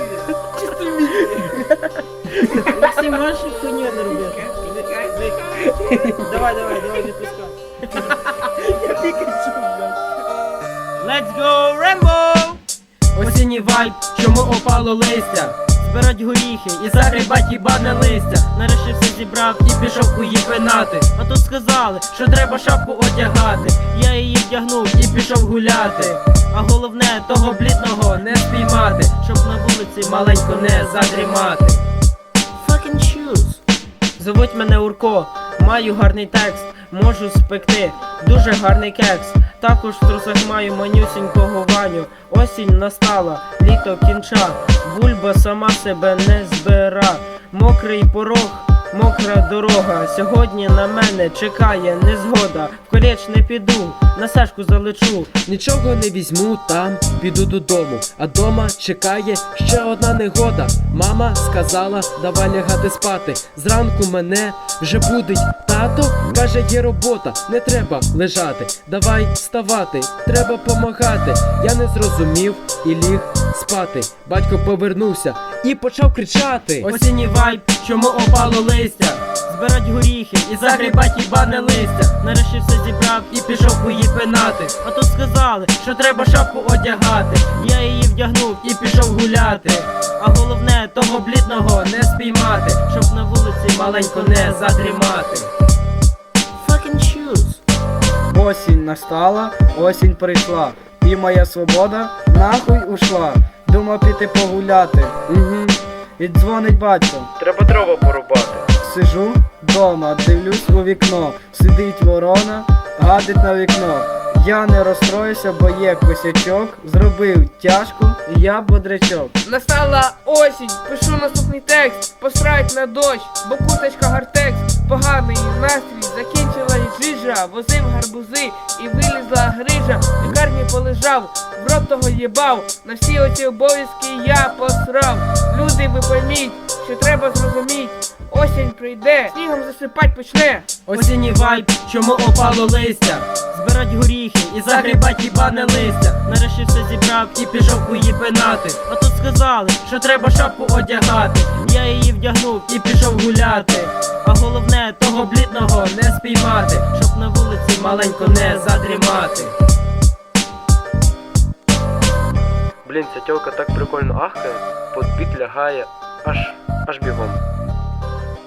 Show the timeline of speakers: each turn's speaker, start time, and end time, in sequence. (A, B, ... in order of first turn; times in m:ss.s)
0:01.2-0:01.6 A
0:02.5-0:10.0 A
0:11.0-0:12.6 A
0:13.2-0:15.6 B
0:15.8-0:19.6 A
0:16.9-0:18.5 B
0:19.6-0:21.1 B
0:21.2-0:22.8 A
0:22.1-0:23.7 B
0:23.7-0:28.1 A
0:24.9-0:26.2 B
0:27.8-0:29.2 B
0:29.0-0:31.5 A
0:30.0-0:31.8 B
0:32.6-0:33.6 A
0:34.2-0:55.3 A
0:55.5-1:19.2 B
1:16.8-1:17.8 A
1:19.3-1:23.4 A
1:20.5-1:22.2 B
1:23.3-1:24.8 B
1:24.8-1:26.5 A
1:25.8-1:27.4 B
1:27.4-1:28.6 A
1:28.6-1:29.9 B
1:30.2-1:31.4 A
1:31.2-1:32.8 B
1:32.8-1:35.2 A
1:33.7-1:35.5 B
1:36.6-1:37.6 A
1:38.3-1:45.2 C
1:45.3-1:45.8 B
1:46.2-1:47.3 C
1:47.4-1:48.6 B
1:48.8-1:59.4 C
1:59.5-2:20.6 D
2:20.9-2:23.3 B
2:20.9-2:21.8 A
2:23.4-2:27.4 A
2:24.6-2:26.2 B
2:27.3-2:28.8 B
2:28.8-2:29.9 A
2:29.8-2:31.6 B
2:31.5-2:35.7 A
2:32.7-2:33.9 B
2:35.6-2:36.9 B
2:36.8-2:39.4 A
2:37.7-2:39.5 B
2:42.8-2:47.4 B